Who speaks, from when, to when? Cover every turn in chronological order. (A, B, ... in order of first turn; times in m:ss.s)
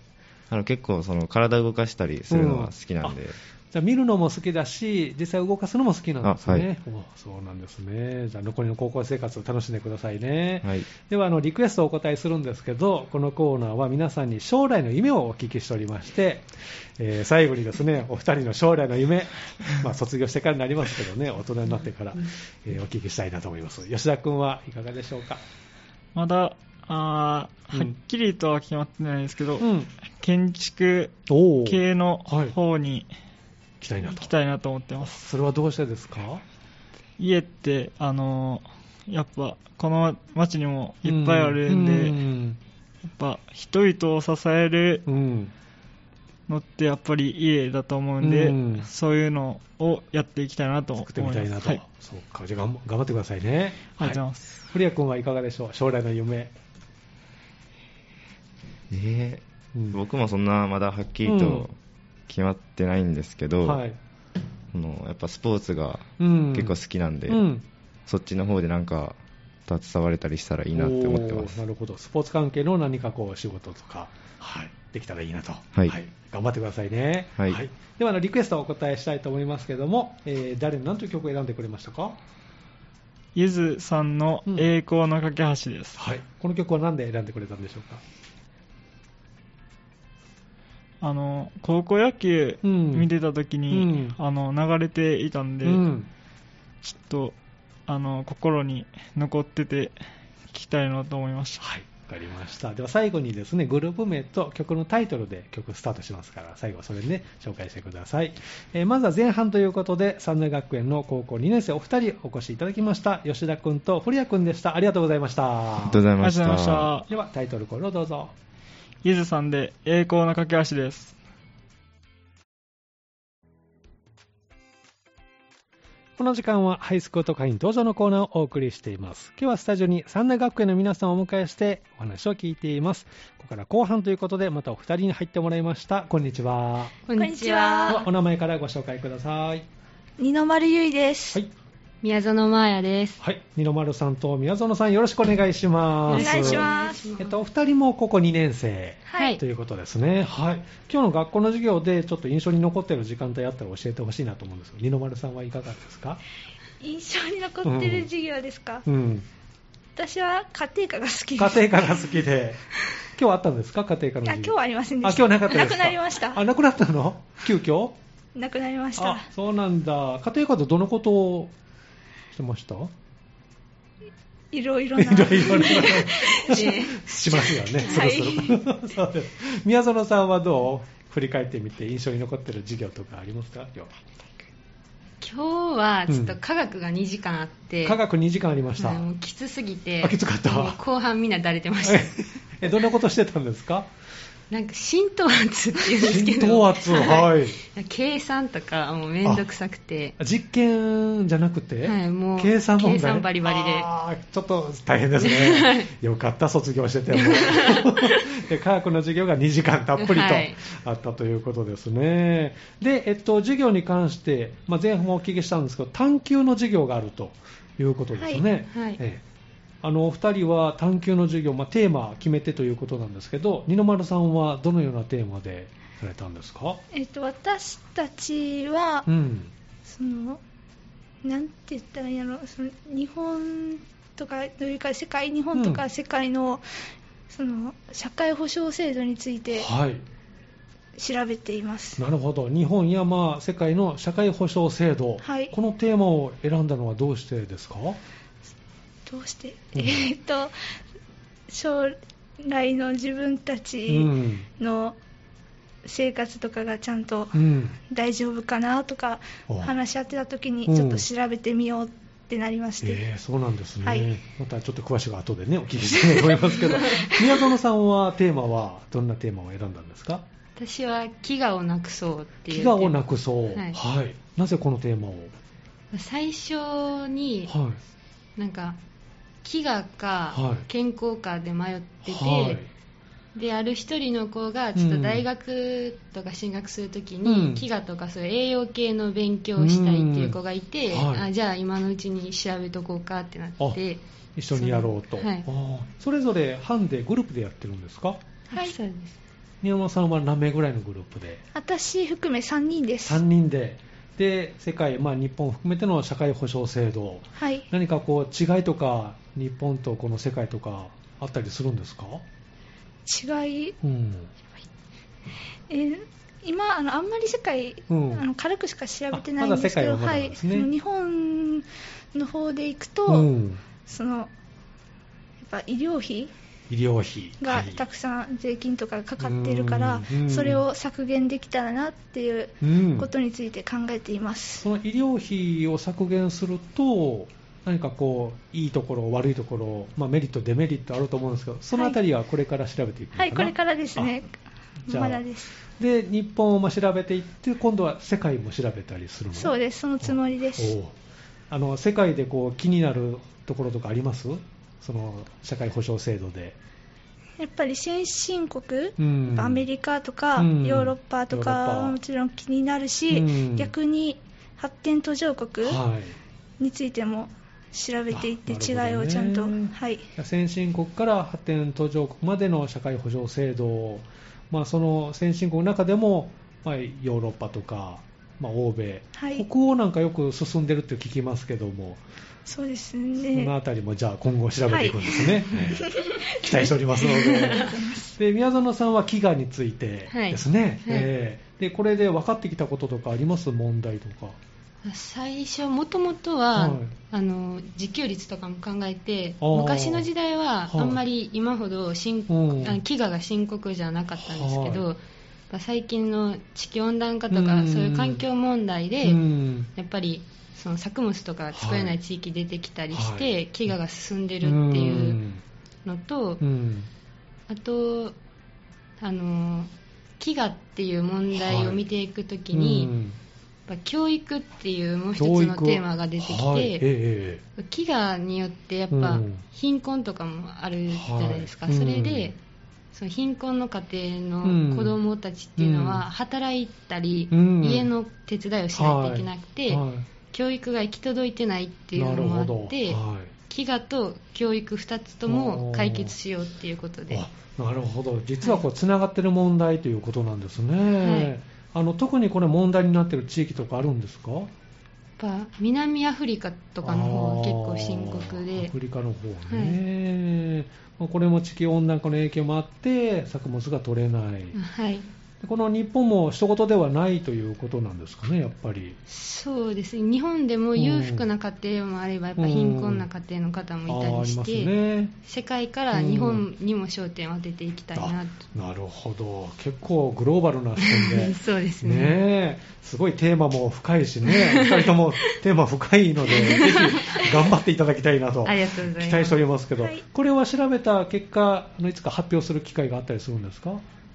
0:00.5-0:03.4 A
0:02.3-0:03.2 B
0:03.7-0:25.4 B
0:06.2-0:06.7 A
0:26.1-0:33.1 C
0:27.7-0:28.0 B
0:29.6-0:29.9 B
0:31.3-0:32.5 B
0:33.8-0:34.3 B
0:34.0-0:35.2 C
0:35.0-0:36.4 B
0:37.2-0:42.2 C
0:41.0-0:42.6 B
0:43.0-0:45.0 C
0:45.1-0:45.5 B
0:46.5-0:51.8 C
0:48.2-0:48.9 B
0:51.0-0:56.5 B
0:54.0-0:54.7 C
0:58.9-1:01.7 A
1:01.2-1:01.7 B
1:02.3-1:03.8 A
1:03.6-1:04.0 B
1:04.7-1:07.4 A
1:06.2-1:07.6 B
1:08.1-1:11.6 A
1:10.7-1:22.2 B
1:23.3-1:26.0 C
1:26.0-1:28.0 B
1:31.0-1:35.8 C
1:32.6-1:33.1 B
1:33.7-1:34.2 B
1:35.6-1:36.1 B
1:36.8-1:37.4 C
1:37.9-1:40.0 C
1:40.5-1:41.6 C
1:41.6-1:56.0 B
1:55.8-1:56.9 A
1:56.2-1:57.1 C
1:57.1-1:58.3 B
1:59.0-2:01.2 C
2:06.2-2:16.9 B
2:17.0-2:18.0 D
2:17.1-2:18.0 E
2:17.9-2:19.6 B
2:20.2-2:21.4 E
2:22.0-2:23.2 D
2:23.2-2:36.2 B
2:26.1-2:27.4 D
2:26.1-2:27.1 E
2:29.1-2:29.4 D
2:36.8-2:38.8 E
2:37.6-2:38.1 B
2:38.8-2:39.3 B
2:40.0-2:42.1 E
2:41.4-2:42.6 B
2:43.1-2:48.0 B
2:44.2-2:46.4 E
2:48.4-2:49.3 E
2:49.0-2:51.5 B
2:52.3-2:52.9 B
2:54.5-2:58.6 E
2:54.9-3:03.9 B
2:56.5-2:57.0 D
3:05.2-3:08.0 D
3:06.1-3:06.4 B
3:07.8-3:09.0 B
3:08.8-3:12.1 D
3:10.0-3:10.8 B
3:11.8-3:13.9 B
3:14.5-3:20.2 D
3:16.0-3:17.6 B
3:20.2-3:39.2 B
3:21.8-3:23.9 D
3:25.2-3:25.9 D
3:27.1-3:28.4 D
3:30.0-3:30.6 D
3:38.2-3:38.4 E
3:38.7-3:39.0 D
3:39.8-3:46.8 B
3:46.9-3:49.1 E
3:49.0-3:49.5 B
3:49.8-3:50.4 E
3:51.2-3:56.6 E
3:55.5-3:55.8 B
3:57.3-3:59.7 E
3:59.5-4:00.0 B
4:01.0-4:02.0 E
4:02.0-4:08.0 B
4:05.2-4:05.5 E
4:09.0-4:10.5 E
4:09.7-4:10.0 B
4:11.5-4:15.0 E
4:13.9-4:14.5 B
4:15.8-4:23.0 E
4:17.3-4:17.8 B
4:20.6-4:21.0 B
4:22.8-4:30.2 B
4:30.6-4:33.0 D
4:32.5-4:35.3 B
4:33.5-4:33.8 D
4:35.9-4:37.5 D
4:37.5-4:37.8 B
4:38.4-4:38.8 D
4:39.4-4:42.6 D
4:40.3-4:40.6 B
4:42.0-4:42.7 B
4:43.3-4:54.0 D
4:44.7-4:45.2 B
4:47.2-4:47.6 B
4:49.6-4:50.4 B
4:50.9-4:51.3 B
4:54.4-4:58.2 B
4:54.5-4:55.5 D
4:58.5-4:59.2 D
4:59.6-5:01.4 B
5:01.5-5:03.2 E
5:03.0-5:12.2 B
5:07.4-5:07.6 E
5:13.0-5:13.8 E
5:13.8-5:14.3 B
5:15.7-5:23.3 E
5:17.9-5:18.2 B
5:19.1-5:20.7 B
5:23.1-5:23.6 B
5:23.8-5:24.3 E
5:25.4-5:26.3 E
5:26.7-5:27.8 B
5:27.4-5:34.6 E
5:29.2-5:30.6 B
5:32.6-5:33.1 B
5:34.6-5:44.2 B
5:43.2-5:44.3 E
5:44.9-5:45.2 B
5:44.9-5:45.5 E
5:45.8-5:50.9 B
5:49.3-5:50.7 E
5:51.5-5:56.6 B
5:57.4-6:05.8 E
5:59.0-5:59.6 B
6:00.4-6:02.0 B
6:03.1-6:03.7 B
6:05.6-6:06.2 B
6:06.6-6:10.1 E
6:08.1-6:22.0 B
6:19.2-6:19.4 E
6:22.4-6:23.5 E
6:23.3-6:34.4 B
6:24.7-6:28.1 E
6:30.1-6:31.1 D
6:34.8-6:55.2 D
6:36.5-6:36.9 B
6:39.4-6:40.1 B
6:40.7-6:41.0 B
6:42.3-6:42.8 B
6:44.3-6:44.8 B
6:47.3-6:48.2 B
6:49.0-6:49.7 B
6:51.5-6:52.0 B
6:52.9-6:53.8 B
6:54.4-6:55.4 B
6:55.8-6:56.4 D
6:56.4-6:56.9 B
6:57.5-6:58.2 D
6:59.0-7:02.9 D
7:01.4-7:01.8 B
7:02.5-7:03.2 B
7:03.7-7:06.8 D
7:05.2-7:07.4 B
7:07.6-7:12.4 D
7:08.9-7:09.4 B
7:10.9-7:12.3 B
7:12.9-7:27.2 D
7:14.4-7:15.0 B
7:15.6-7:16.1 B
7:17.3-7:17.9 B
7:18.7-7:20.1 B
7:21.9-7:23.3 B
7:25.2-7:26.1 B
7:27.1-7:34.5 B
7:31.0-7:31.3 D
7:35.2-7:38.7 D
7:36.8-7:44.6 B
7:39.5-7:39.8 D
7:44.5-7:45.1 D
7:45.4-7:49.0 B
7:49.1-7:54.7 D
7:50.8-7:51.2 B
7:52.4-7:53.1 B
7:53.9-7:55.1 B
7:55.2-7:58.4 D
7:55.9-7:56.4 B
7:57.9-8:13.8 B
8:00.8-8:02.2 D
8:04.2-8:05.4 D
8:06.3-8:07.4 D
8:08.4-8:09.4 D